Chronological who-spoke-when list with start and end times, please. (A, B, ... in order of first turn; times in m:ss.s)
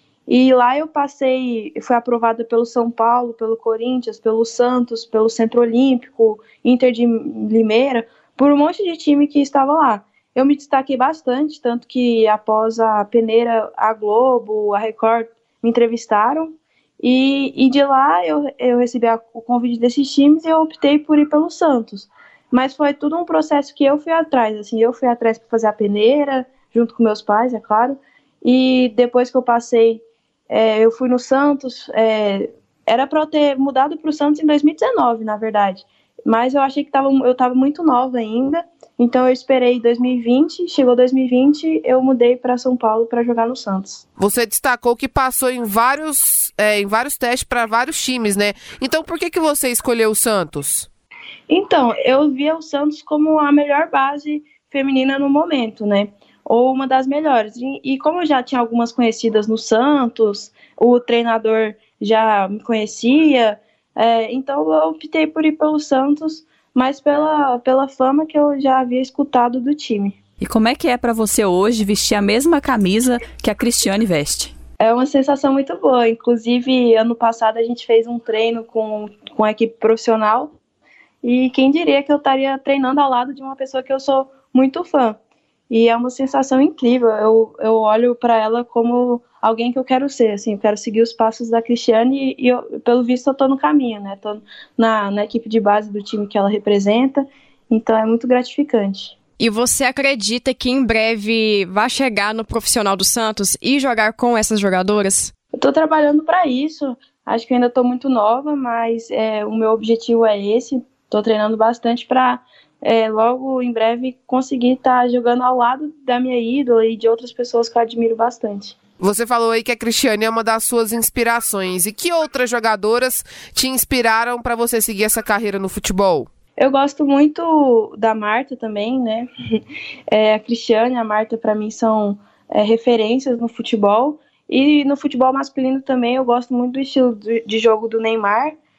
0:00.3-0:44.0 A
0:44.2-0:50.9 B
0:51.5-1:10.2 A
1:10.4-1:14.5 C
1:14.8-1:20.5 A
1:21.2-1:25.2 A
1:25.7-1:39.2 A
1:39.4-1:45.3 D
1:45.6-1:58.8 A
1:59.0-2:06.3 B
2:06.6-2:09.3 A
2:10.1-2:18.6 A